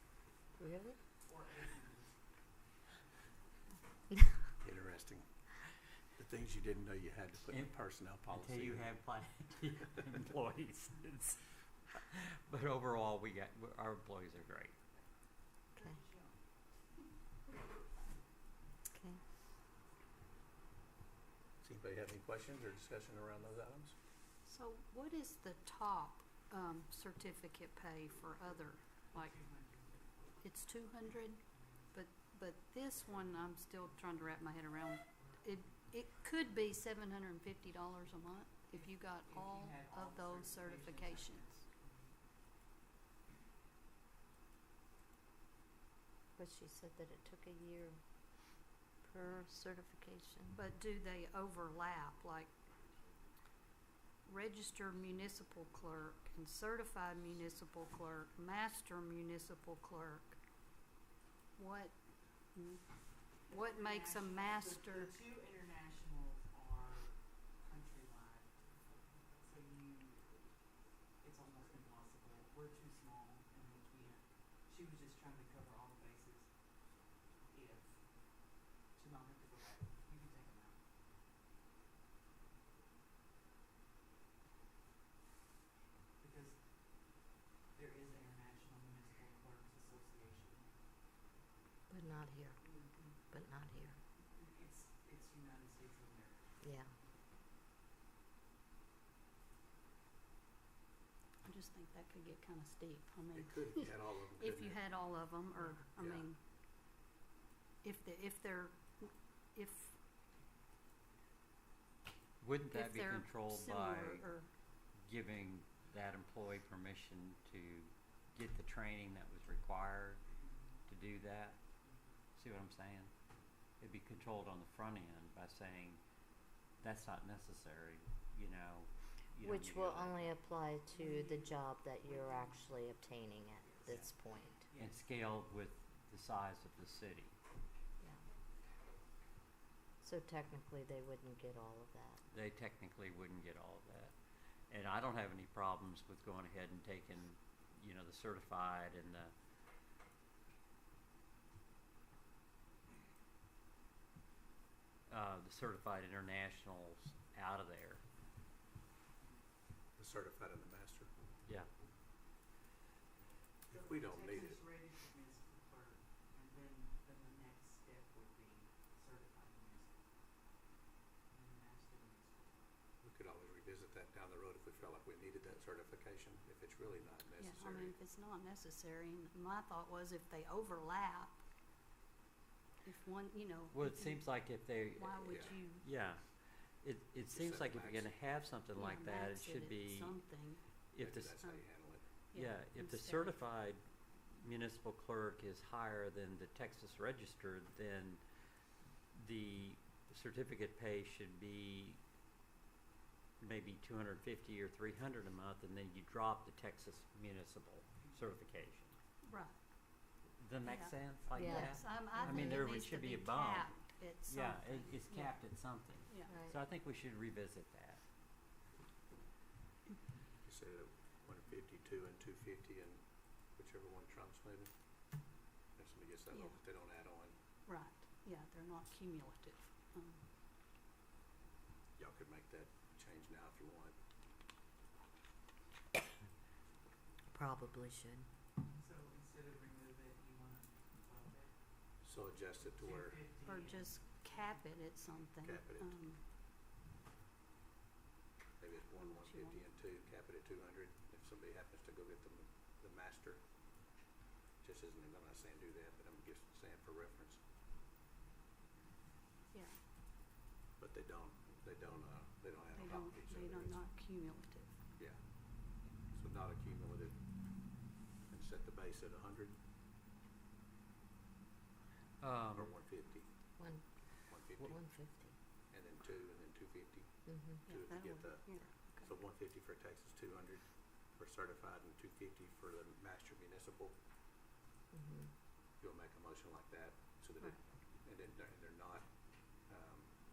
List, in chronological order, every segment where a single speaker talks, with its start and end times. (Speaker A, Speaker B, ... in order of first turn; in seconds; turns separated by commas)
Speaker A: 0.6-1.0, Speaker B: 1.3-2.1, Speaker C: 4.6-5.5, Speaker C: 6.2-8.9, Speaker D: 7.5-14.8, Speaker B: 16.0-16.2, Speaker A: 18.9-19.2, Speaker C: 21.6-23.9, Speaker E: 24.4-29.5, Speaker B: 29.2-30.3, Speaker E: 30.4-31.4, Speaker E: 31.9-41.6, Speaker B: 39.4-42.1, Speaker A: 46.4-50.6, Speaker E: 50.5-52.6, Speaker E: 54.2-60.4, Speaker E: 61.6-65.2, Speaker B: 63.5-68.6, Speaker B: 69.4-70.3, Speaker B: 71.2-76.6, Speaker B: 77.5-80.8, Speaker B: 86.2-86.7, Speaker B: 87.8-90.7, Speaker A: 91.9-94.0, Speaker B: 94.4-96.4, Speaker A: 96.6-96.9, Speaker E: 101.4-106.4, Speaker C: 103.3-105.0, Speaker C: 106.0-106.3, Speaker E: 107.8-110.0, Speaker D: 112.4-114.3, Speaker E: 112.7-114.5, Speaker D: 115.0-120.2, Speaker D: 120.9-121.6, Speaker D: 122.4-123.1, Speaker D: 123.8-126.0, Speaker D: 126.8-130.3, Speaker A: 129.4-134.7, Speaker D: 134.7-137.3, Speaker A: 140.0-142.2, Speaker D: 142.3-149.3, Speaker D: 155.1-158.0, Speaker C: 160.0-161.1, Speaker C: 163.7-164.7, Speaker B: 163.7-169.9, Speaker B: 171.3-172.5, Speaker C: 173.0-178.0, Speaker E: 177.4-181.4, Speaker E: 182.8-185.9, Speaker D: 183.7-190.2, Speaker C: 185.3-185.6, Speaker C: 187.3-188.2, Speaker E: 188.7-190.7, Speaker D: 190.9-191.4, Speaker C: 191.0-192.0, Speaker E: 191.4-193.4, Speaker D: 192.3-198.2, Speaker D: 199.1-202.0, Speaker D: 203.4-208.9, Speaker E: 209.2-209.6, Speaker D: 210.4-218.0, Speaker E: 210.6-215.4, Speaker A: 211.4-212.6, Speaker E: 216.1-216.3, Speaker A: 216.3-216.6, Speaker C: 220.4-224.7, Speaker C: 225.8-227.4, Speaker E: 226.3-226.6, Speaker E: 227.7-230.2, Speaker C: 232.0-233.9, Speaker A: 237.3-238.3, Speaker B: 238.8-241.5, Speaker C: 242.0-243.3, Speaker B: 243.2-244.1, Speaker E: 243.4-246.2, Speaker C: 245.4-246.0, Speaker C: 248.6-253.4, Speaker E: 248.9-249.6, Speaker C: 254.6-257.4, Speaker E: 259.5-259.8, Speaker C: 260.8-263.8, Speaker E: 262.8-264.8, Speaker C: 265.0-269.6, Speaker D: 272.2-272.7, Speaker C: 272.5-273.3, Speaker A: 273.6-275.4, Speaker C: 274.2-274.8, Speaker C: 275.7-284.0, Speaker A: 277.3-277.6, Speaker E: 277.6-279.1, Speaker A: 284.9-285.3, Speaker C: 285.8-290.1